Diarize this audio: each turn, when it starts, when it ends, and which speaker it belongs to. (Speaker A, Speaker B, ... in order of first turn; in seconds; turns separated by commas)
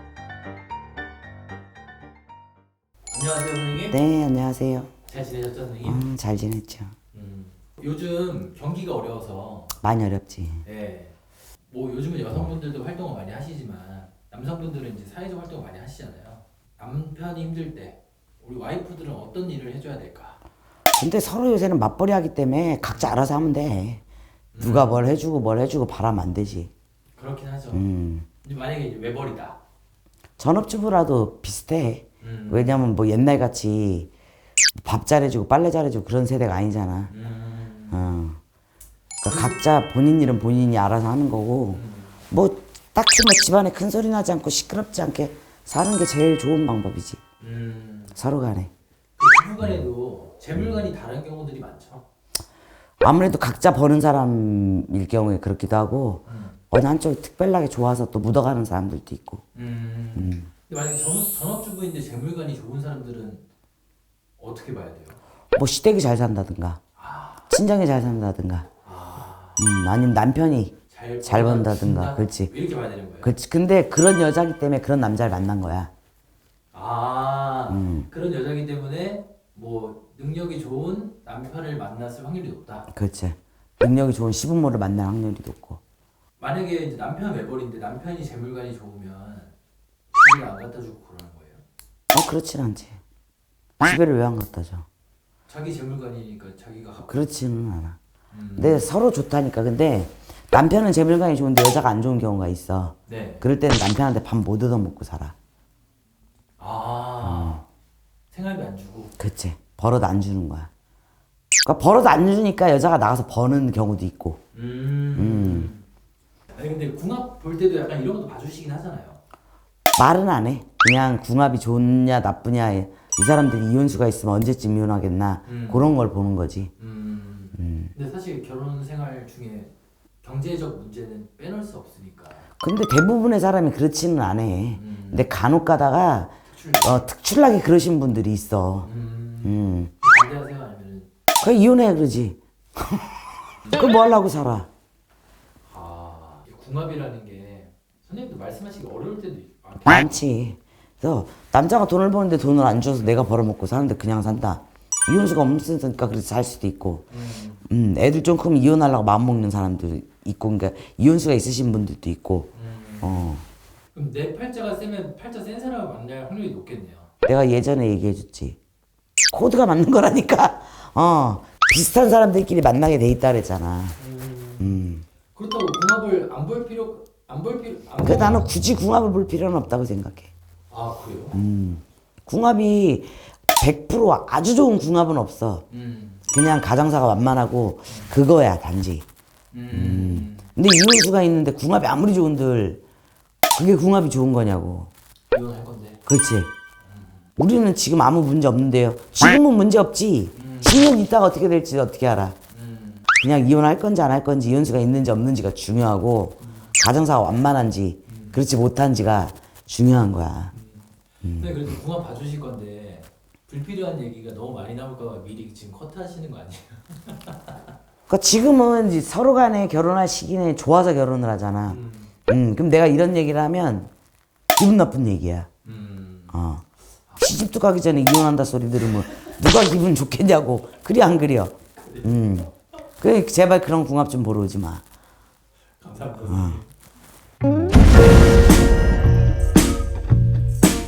Speaker A: 3.1-4.0, Speaker B: 3.9-4.9, Speaker A: 5.0-6.1, Speaker B: 5.8-6.9, Speaker A: 7.1-9.7, Speaker B: 9.8-10.6, Speaker A: 10.6-20.4, Speaker B: 20.9-24.0, Speaker A: 22.9-23.2, Speaker A: 24.5-25.1, Speaker B: 24.6-26.7, Speaker A: 27.1-27.9, Speaker B: 27.7-28.2, Speaker A: 28.4-29.6, Speaker B: 30.4-34.1, Speaker A: 32.2-32.8, Speaker B: 34.8-37.1, Speaker A: 37.1-38.0, Speaker B: 37.9-38.4, Speaker B: 39.2-47.2, Speaker A: 39.2-39.6, Speaker A: 41.7-42.2, Speaker A: 47.4-48.2, Speaker B: 48.1-48.7, Speaker A: 49.2-52.0, Speaker B: 53.0-59.4, Speaker A: 56.3-56.6, Speaker A: 59.5-63.4, Speaker B: 60.1-60.5, Speaker A: 64.4-65.2, Speaker B: 65.5-66.8, Speaker A: 67.0-67.5, Speaker B: 67.5-68.7, Speaker A: 68.8-69.6, Speaker B: 69.6-72.5, Speaker A: 70.9-73.3, Speaker B: 73.2-75.9, Speaker A: 76.7-82.9, Speaker B: 77.7-78.1, Speaker B: 82.9-85.8, Speaker A: 86.4-89.5, Speaker A: 90.1-91.6, Speaker B: 92.1-93.0, Speaker B: 93.8-94.8, Speaker A: 95.5-97.1, Speaker B: 97.0-98.0, Speaker A: 98.3-98.9, Speaker B: 98.6-105.3, Speaker A: 103.1-103.5, Speaker A: 106.6-107.6, Speaker B: 107.2-107.6, Speaker A: 108.3-109.1, Speaker B: 109.2-110.7, Speaker B: 111.6-114.4, Speaker A: 114.5-115.8, Speaker B: 115.1-115.7, Speaker A: 116.5-119.2, Speaker B: 120.0-126.7, Speaker A: 125.5-125.9, Speaker A: 126.8-129.7, Speaker B: 127.5-127.9, Speaker A: 130.2-132.4, Speaker B: 132.6-138.9, Speaker A: 134.7-135.3, Speaker A: 136.5-137.1, Speaker A: 138.8-141.1, Speaker B: 139.4-139.9, Speaker B: 141.4-143.1, Speaker B: 143.6-144.7, Speaker A: 145.6-150.2, Speaker B: 149.8-157.1, Speaker A: 157.1-157.7, Speaker B: 157.7-162.5, Speaker A: 162.5-163.3, Speaker B: 163.0-163.4, Speaker A: 163.9-167.1, Speaker B: 167.2-168.6, Speaker B: 169.3-174.0, Speaker A: 174.0-174.8, Speaker B: 174.6-175.1, Speaker A: 175.3-178.4, Speaker B: 178.0-180.3, Speaker A: 180.7-181.4, Speaker B: 181.3-185.6, Speaker A: 185.7-186.2, Speaker B: 186.3-189.0, Speaker A: 187.9-188.1, Speaker A: 189.5-190.5, Speaker B: 189.7-192.8, Speaker B: 193.5-194.9, Speaker A: 195.3-196.0, Speaker B: 196.1-196.5, Speaker A: 196.8-197.3, Speaker B: 197.4-202.4, Speaker A: 200.3-200.9, Speaker A: 202.5-203.1, Speaker B: 203.2-210.5, Speaker A: 206.4-206.7, Speaker A: 208.1-208.4, Speaker A: 210.5-217.7, Speaker B: 211.2-211.7, Speaker B: 218.1-223.9, Speaker A: 221.7-222.1, Speaker B: 224.6-225.5, Speaker A: 225.6-226.3, Speaker B: 226.3-226.6, Speaker B: 227.2-234.8, Speaker A: 231.8-232.2, Speaker A: 235.8-236.7, Speaker B: 236.3-236.6